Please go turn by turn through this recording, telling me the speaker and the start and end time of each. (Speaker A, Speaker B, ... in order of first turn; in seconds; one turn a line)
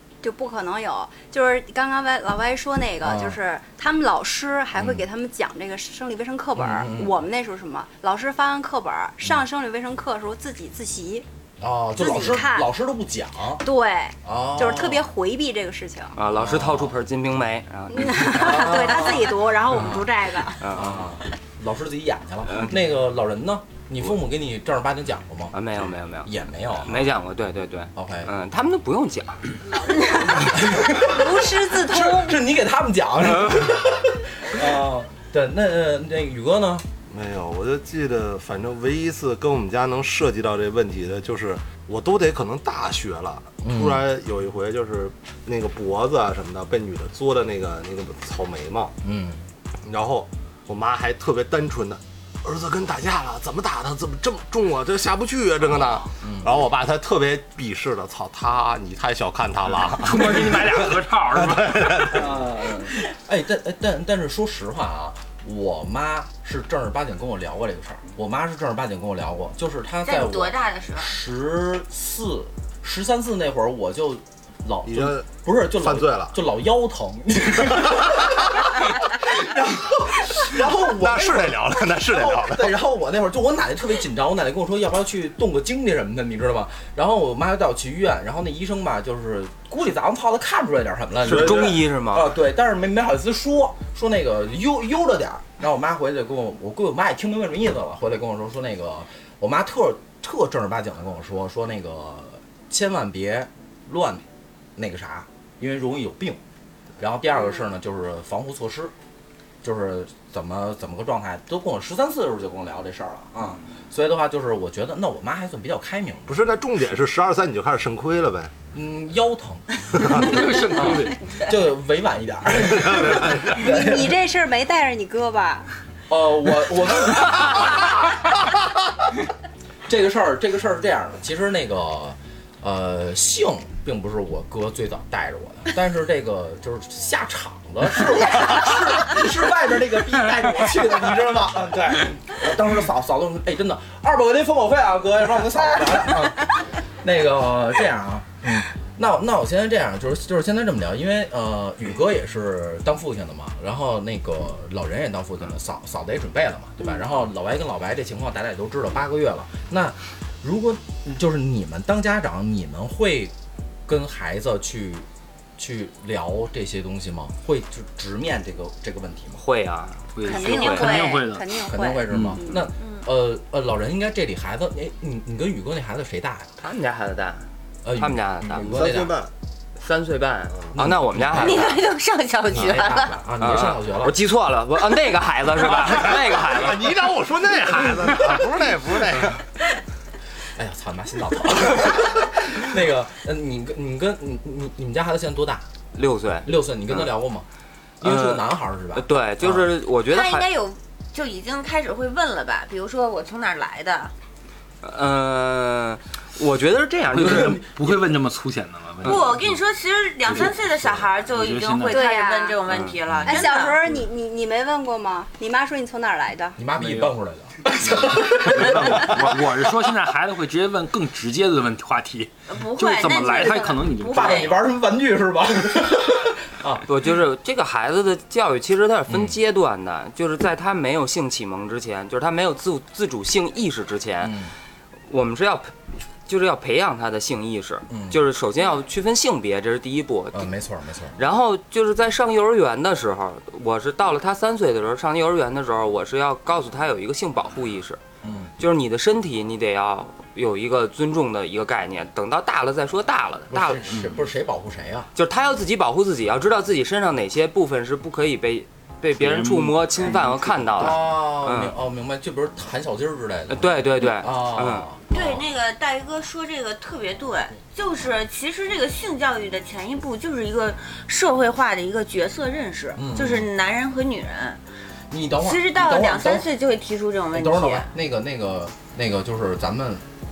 Speaker A: 0.2-11.2
Speaker B: 3.0-3.4
Speaker B: 4.7-5.0
Speaker B: 6.5-7.2
Speaker B: 11.6-13.6
Speaker A: 11.9-12.7
Speaker A: 13.6-16.1
Speaker B: 14.2-15.1
Speaker C: 16.1-18.9
Speaker B: 16.3-16.9
Speaker A: 17.9-20.6
Speaker B: 18.2-20.1
Speaker C: 20.6-21.0
Speaker B: 20.7-25.5
Speaker C: 22.5-22.8
Speaker C: 25.5-29.5
Speaker B: 26.2-27.1
Speaker B: 27.9-28.3
Speaker B: 30.5-36.9
Speaker A: 30.9-32.4
Speaker D: 37.1-48.9
Speaker B: 43.6-44.0
Speaker B: 49.0-49.5
Speaker D: 49.8-62.2
Speaker B: 56.2-56.5
Speaker E: 59.8-62.3
Speaker B: 62.1-104.2
Speaker F: 70.0-71.1
Speaker D: 74.8-76.3
Speaker D: 80.9-82.7
Speaker C: 91.2-92.3
Speaker D: 91.3-91.7
Speaker B: 104.8-106.4
Speaker B: 107.0-108.9
Speaker B: 109.6-116.3
Speaker D: 116.3-118.5
Speaker B: 118.7-124.2
Speaker D: 119.9-120.4
Speaker E: 120.1-121.2
Speaker D: 122.8-123.4
Speaker A: 123.4-125.7
Speaker B: 126.1-128.1
Speaker B: 129.9-163.3
Speaker B: 163.8-165.1
Speaker B: 165.6-169.4
Speaker C: 169.4-171.0
Speaker E: 170.1-171.5
Speaker A: 170.2-172.6
Speaker F: 170.3-171.2
Speaker B: 171.6-176.5
Speaker E: 172.1-172.4
Speaker C: 176.6-177.4
Speaker B: 177.8-179.2
Speaker C: 177.9-178.7
Speaker D: 178.6-179.3
Speaker C: 179.8-181.8
Speaker B: 180.7-181.7
Speaker F: 181.3-183.2
Speaker B: 182.5-184.1
Speaker C: 183.4-187.0
Speaker D: 185.8-189.4
Speaker B: 190.5-195.6
Speaker C: 195.9-197.1
Speaker B: 196.4-197.4
Speaker B: 198.0-199.7
Speaker C: 198.0-200.5
Speaker F: 200.1-204.1
Speaker C: 204.8-207.6
Speaker E: 207.1-209.6
Speaker B: 207.2-207.6
Speaker F: 209.0-213.8
Speaker E: 210.2-212.1
Speaker A: 211.9-212.6
Speaker C: 212.7-212.9
Speaker B: 213.1-213.5
Speaker A: 213.2-216.6
Speaker B: 216.6-219.4
Speaker E: 216.8-217.1
Speaker E: 217.8-224.5
Speaker F: 222.5-224.6
Speaker B: 224.0-226.9
Speaker C: 226.8-234.4
Speaker B: 229.1-229.3
Speaker B: 234.2-234.5
Speaker C: 235.1-235.7
Speaker C: 236.3-240.5
Speaker B: 237.9-238.2
Speaker B: 240.3-241.2
Speaker C: 241.2-248.0
Speaker B: 248.2-248.5
Speaker C: 248.6-254.0
Speaker B: 253.5-255.1
Speaker E: 253.9-254.2
Speaker C: 255.1-261.7
Speaker E: 259.2-260.9
Speaker B: 260.8-265.0
Speaker C: 263.5-264.9
Speaker F: 265.1-274.6
Speaker B: 272.9-273.5
Speaker B: 275.1-276.5
Speaker F: 275.4-277.9
Speaker B: 277.3-280.0